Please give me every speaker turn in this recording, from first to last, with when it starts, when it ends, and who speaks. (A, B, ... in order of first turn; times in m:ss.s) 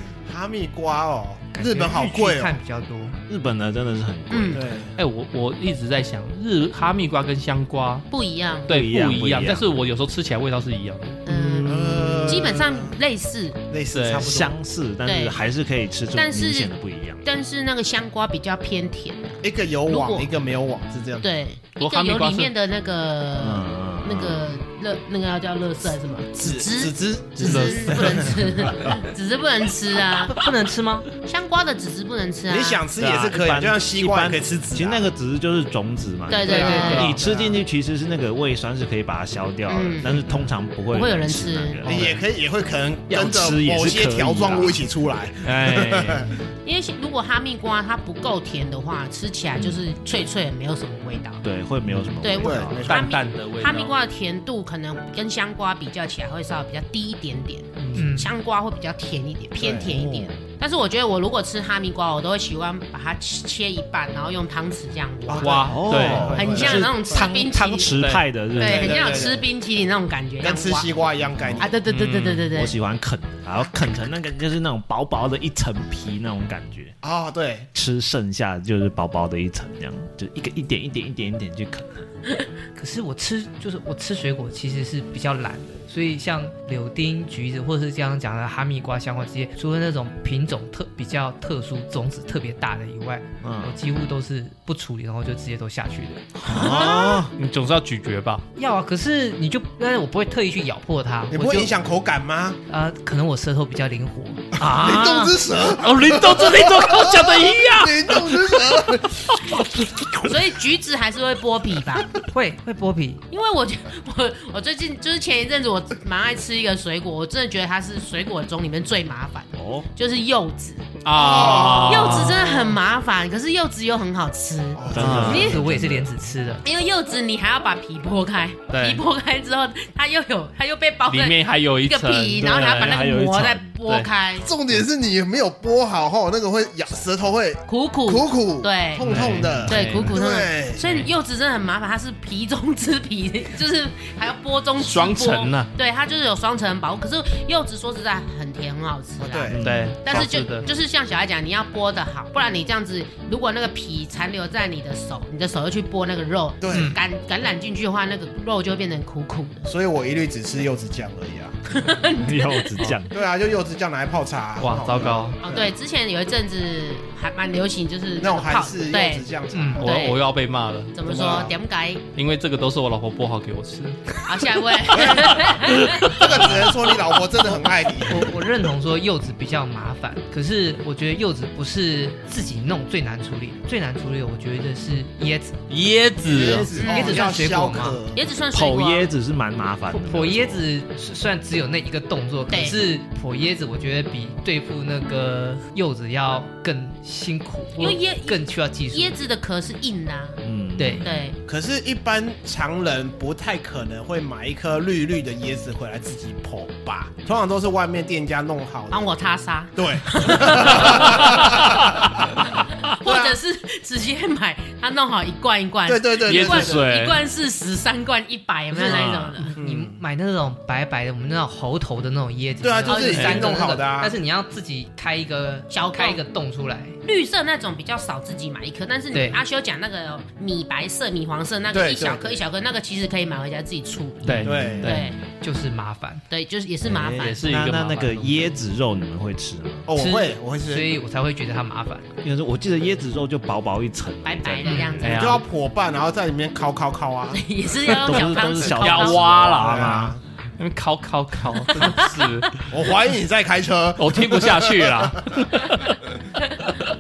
0:00.2-0:02.6 A
0:01.5-0:03.2 B
0:03.3-0:04.8 C
0:04.3-0:04.6 D
0:04.5-0:05.0 A
0:05.0-0:08.1 E
0:08.1-0:08.7 D
0:08.7-0:09.6 C
0:08.7-0:12.4 E
0:11.3-0:13.6 D
0:11.7-0:13.0 A
0:13.7-0:14.5 A
0:13.9-0:14.4 E
0:14.2-0:17.2 C
0:15.0-0:15.5 D
0:16.1-0:16.7 D
0:17.2-0:20.3 D
0:19.4-0:21.3 A
0:21.2-0:30.4 D
0:21.8-0:22.5 E
0:23.4-0:24.4 C
0:26.4-0:29.0 A
0:27.4-0:28.2 E
0:30.2-0:31.1 B
0:31.2-0:32.8 D
0:32.5-0:35.1 A
0:33.0-0:42.2 C
0:36.3-0:37.2 D
0:36.4-0:37.6 A
0:36.4-0:37.1 B
0:36.7-0:37.2 E
0:39.7-0:40.3 D
0:40.9-0:41.9 D
0:41.8-0:46.4 A
0:43.1-0:44.9 C
0:45.4-0:46.3 E
0:46.6-0:51.4 D
0:51.4-0:52.9 C
0:52.2-1:08.0 D
0:52.4-0:53.1 A
0:52.8-0:54.0 E
0:57.8-0:58.1 E
0:58.0-0:58.3 B
0:59.6-0:59.9 A
0:59.9-1:00.3 C
1:05.3-1:07.3 A
1:05.4-1:06.4 E
1:05.7-1:09.3 C
1:08.0-1:08.3 E
1:08.6-1:10.9 D
1:08.6-1:09.4 A
1:10.4-1:11.8 A
1:11.4-1:11.7 C
1:11.6-1:12.8 D
1:11.9-1:12.5 E
1:12.5-1:16.9 C
1:17.0-1:17.7 A
1:17.7-1:22.1 C
1:22.8-1:36.9 B
1:33.4-1:33.8 C
1:36.4-1:37.3 C
1:36.5-1:38.4 E
1:38.6-1:41.7 B
1:41.3-1:42.6 A
1:42.7-1:45.4 B
1:44.6-1:49.6 A
1:45.7-1:48.6 E
1:50.2-1:52.1 D
1:52.3-1:53.2 B
1:53.3-2:05.5 D
1:59.5-1:59.9 C
2:01.0-2:02.5 E
2:01.1-2:02.4 A
2:04.8-2:05.7 A
2:04.9-2:06.1 C
2:05.0-2:05.5 E
2:05.1-2:06.6 B
2:06.6-2:14.5 D
2:08.7-2:09.0 E
2:11.1-2:13.0 E
2:12.4-2:13.8 C
2:14.4-2:20.9 A
2:17.7-2:39.7 D
2:19.0-2:20.1 E
2:20.8-2:21.1 E
2:24.8-2:25.7 E
2:29.2-2:29.6 A
2:29.5-2:30.0 C
2:29.6-2:30.7 E
2:36.6-2:37.0 A
2:36.7-2:37.0 B
2:39.6-2:41.6 A
2:41.7-2:42.9 D
2:42.0-2:43.2 C
2:43.1-2:45.7 A
2:44.6-2:45.4 E
2:45.4-2:50.2 D
2:48.2-2:50.0 A
2:49.5-2:49.9 B
2:49.8-2:51.0 E
2:51.0-2:52.0 D
2:51.0-2:51.6 A
2:52.2-2:54.2 E
2:54.2-2:56.9 D
2:55.1-2:58.4 A
2:55.2-2:56.1 E
2:58.0-3:05.6 B
3:05.7-3:06.7 E
3:06.2-3:08.2 A
3:06.8-3:07.3 D
3:06.8-3:08.0 B
3:08.1-3:09.1 D
3:08.5-3:10.7 C
3:09.9-3:19.2 B
3:12.5-3:12.8 D
3:17.8-3:20.4 D
3:20.4-3:21.1 C
3:20.8-3:21.2 B
3:21.0-3:21.4 D
3:21.4-3:29.1 A
3:28.9-3:39.5 D
3:29.8-3:32.5 A
3:33.0-3:33.4 A
3:35.9-3:36.9 A
3:36.3-3:37.2 E
3:38.8-3:40.0 A
3:38.8-3:39.4 C
3:39.4-3:47.0 B
3:42.6-3:44.2 A
3:42.9-3:43.6 D
3:45.7-3:46.2 D
3:47.0-3:55.2 D
3:49.1-3:49.4 B
3:51.7-3:52.4 A
3:54.3-3:55.1 E
3:54.4-3:55.0 C
3:54.4-3:54.9 A
3:55.4-3:56.2 B
3:56.3-3:57.4 D
3:56.8-3:59.9 C
3:57.2-3:58.6 E
3:59.9-4:00.9 A
4:00.0-4:02.1 B
4:02.2-4:04.9 C
4:04.2-4:05.4 D
4:04.6-4:05.0 B
4:05.0-4:05.4 E
4:05.0-4:07.4 A
4:07.3-4:09.2 D
4:07.8-4:10.2 C
4:08.8-4:10.0 E
4:09.4-4:10.2 A
4:10.6-4:12.6 E
4:11.7-4:12.7 D
4:12.7-4:15.2 A
4:14.0-4:16.0 E
4:16.4-4:16.7 D